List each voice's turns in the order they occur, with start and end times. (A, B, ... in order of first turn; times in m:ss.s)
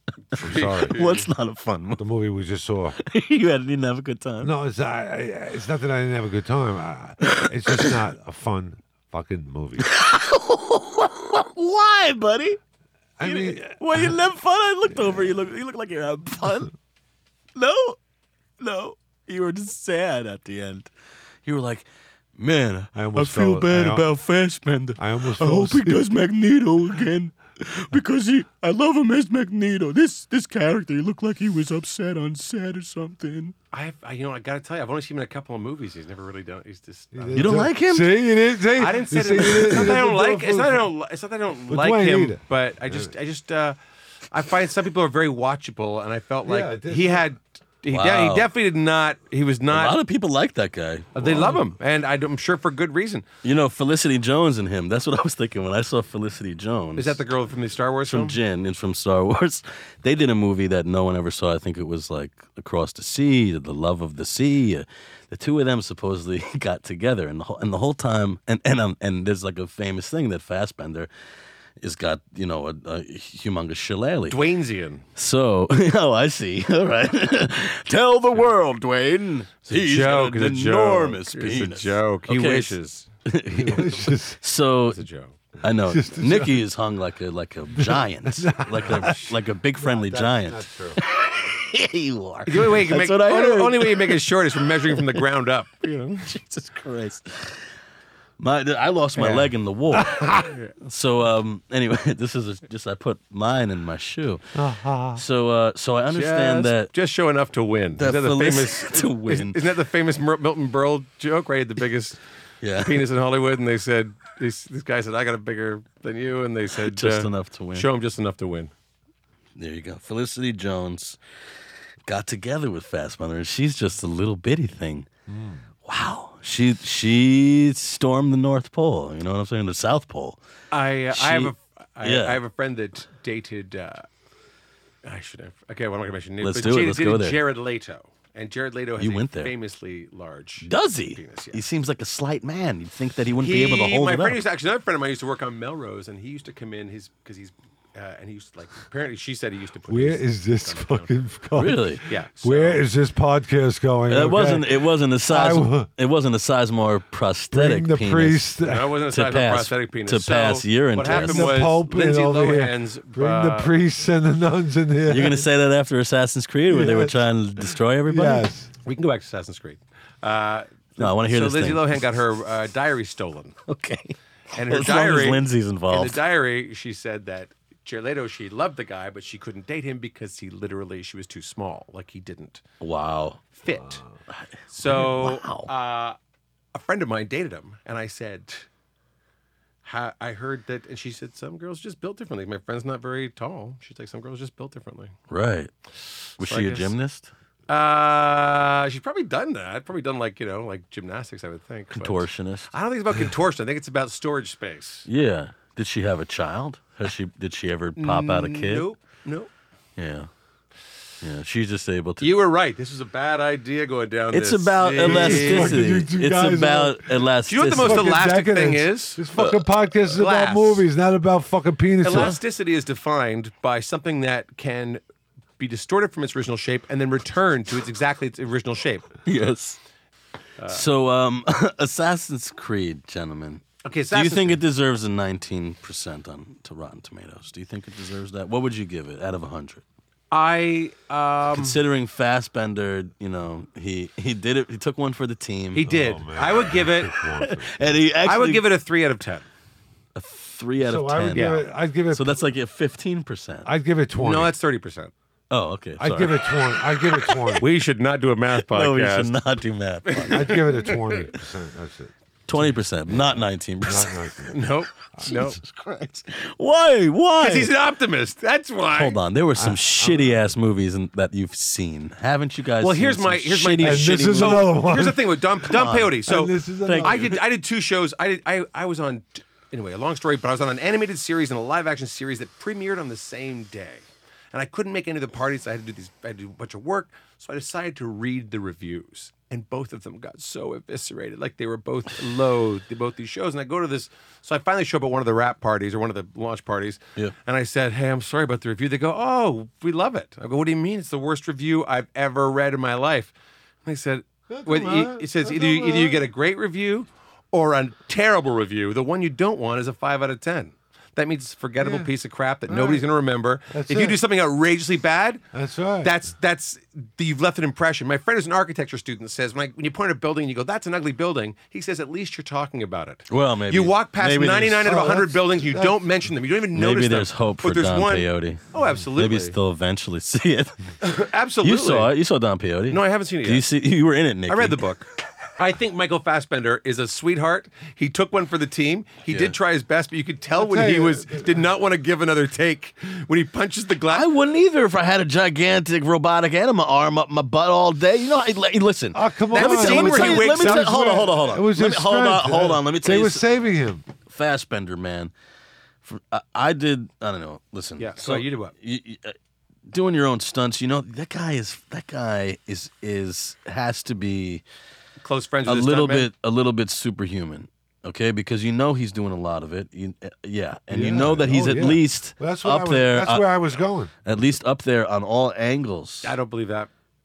0:00.3-0:01.3 A
0:00.4-0:01.0 B
0:00.6-0:02.0 C
0:02.0-0:03.0 B
0:03.0-0:04.5 C
0:04.4-0:09.9 B
0:07.2-0:08.0 C
0:09.8-0:12.6 C
0:13.2-0:14.2 B
0:13.2-0:16.7 C
0:15.0-0:15.2 B
0:17.6-0:18.0 C
0:18.6-0:20.9 C
0:21.4-0:21.9 C
0:22.4-0:33.6 C
0:23.0-0:24.1 B
0:25.0-0:26.0 B
0:33.7-0:37.6 A
0:37.1-0:40.9 B
0:37.4-0:38.2 C
0:38.8-0:43.8 A
0:41.7-0:43.1 B
0:44.3-0:50.0 A
0:46.4-0:47.3 B
0:47.9-0:48.5 C
0:49.7-0:51.6 C
0:51.2-0:53.3 A
0:51.3-0:51.5 B
0:53.4-0:57.2 C
0:57.0-0:58.4 A
0:58.1-1:11.1 C
1:11.8-1:14.4 C
1:14.3-1:15.0 A
1:15.2-1:22.7 C
1:19.7-1:23.1 A
1:23.3-1:25.0 C
1:23.5-1:24.4 B
1:24.9-1:25.4 A
1:25.6-1:34.2 C
1:25.6-1:26.7 B
1:27.8-1:31.0 B
1:32.5-1:36.3 A
1:34.9-1:35.2 C
1:36.2-1:37.6 C
1:38.4-1:40.3 C
1:39.2-1:39.5 A
1:39.9-1:40.5 B
1:40.4-1:40.7 A
1:40.8-1:44.4 C
1:44.6-1:45.2 B
1:45.2-1:46.9 C
1:46.1-1:52.2 A
1:48.0-1:49.6 C
1:52.6-1:53.0 C
1:52.8-1:58.7 A
1:56.7-1:57.9 C
1:59.6-2:01.2 C
2:02.1-2:05.1 C
2:05.3-2:05.6 B
2:05.8-2:10.4 C
2:10.7-2:14.1 A
2:11.1-2:12.4 C
2:15.0-2:21.6 A
2:16.4-2:17.4 C
2:19.0-2:19.5 C
2:20.6-2:24.4 C
2:23.4-2:31.1 A
2:29.9-2:35.9 B
2:31.6-2:32.0 C
2:32.1-2:32.8 A
2:34.1-2:38.5 C
2:37.5-2:38.9 B
2:38.6-2:43.7 A
2:39.1-2:41.5 C
2:41.0-2:45.5 B
2:45.1-2:48.5 C
2:46.7-2:47.2 B
2:48.1-2:48.7 B
2:48.8-2:53.5 A
2:51.0-2:52.0 C
2:53.7-2:56.2 C
2:54.6-3:02.6 A
3:02.8-3:03.5 C
3:03.6-3:04.0 A
3:04.3-3:05.7 C
3:04.7-3:06.2 A
3:06.7-3:08.7 A
3:09.8-3:15.1 A
3:15.3-3:15.7 C
3:16.4-3:17.3 C
3:16.4-3:16.9 A
3:17.7-3:25.1 A
3:21.9-3:22.7 C
3:25.1-3:28.9 C
3:28.0-3:29.5 A
3:30.0-3:30.3 C
3:31.2-3:32.3 C
3:32.2-3:35.9 A
3:34.3-3:38.2 C
3:35.0-3:42.4 B
3:37.5-3:40.8 A
3:42.0-3:45.0 A
3:42.1-3:42.4 C
3:45.6-3:49.1 A
3:49.3-3:49.8 C
3:50.6-3:50.8 A
3:50.7-3:59.8 C
3:53.8-3:54.6 A
4:00.3-4:01.8 A
4:01.5-4:05.9 C
4:05.7-4:07.2 A
4:05.8-4:07.9 B
4:07.4-4:08.6 C
4:08.2-4:09.4 A
4:10.2-4:11.6 C
4:10.8-4:12.4 B
4:11.4-4:11.7 A
4:12.1-4:13.7 C
4:13.6-4:14.5 B
4:14.2-4:15.1 A
4:15.5-4:17.6 C
4:16.0-4:17.7 B
4:17.6-4:19.3 A
4:18.6-4:20.7 C
4:20.1-4:21.3 A
4:20.3-4:24.6 B
4:22.5-4:24.3 C
4:24.5-4:25.6 A
4:25.2-4:25.5 B
4:25.2-4:27.7 C
4:27.4-4:29.2 A
4:28.9-4:34.8 C
4:29.6-4:30.5 B
4:32.8-5:03.3 A
4:33.8-4:37.3 B
4:35.6-4:36.2 C
4:36.8-4:37.4 C
5:03.8-5:15.4 A
5:04.5-5:06.3 B
5:11.8-5:12.1 B
5:12.7-5:13.1 B
5:13.7-5:14.2 B
5:15.5-5:16.2 B
5:16.0-5:29.6 A
5:23.3-5:25.0 C
5:24.8-5:26.0 B
5:26.7-5:28.6 C
5:29.2-5:30.8 C
5:31.0-5:32.1 A
5:31.6-5:34.8 C
5:32.9-5:33.7 A
5:34.5-5:35.1 A
5:35.6-5:44.3 A
5:39.3-5:39.6 C
5:40.5-5:41.6 B
5:44.1-5:53.5 C
5:49.1-5:54.0 B
5:49.5-5:51.1 A
5:54.3-5:55.3 C
5:56.0-5:59.4 C
5:58.0-5:58.7 A
5:59.9-6:04.6 C
6:05.2-6:06.3 A
6:05.7-6:16.3 C
6:10.9-6:14.1 B
6:16.2-6:16.9 A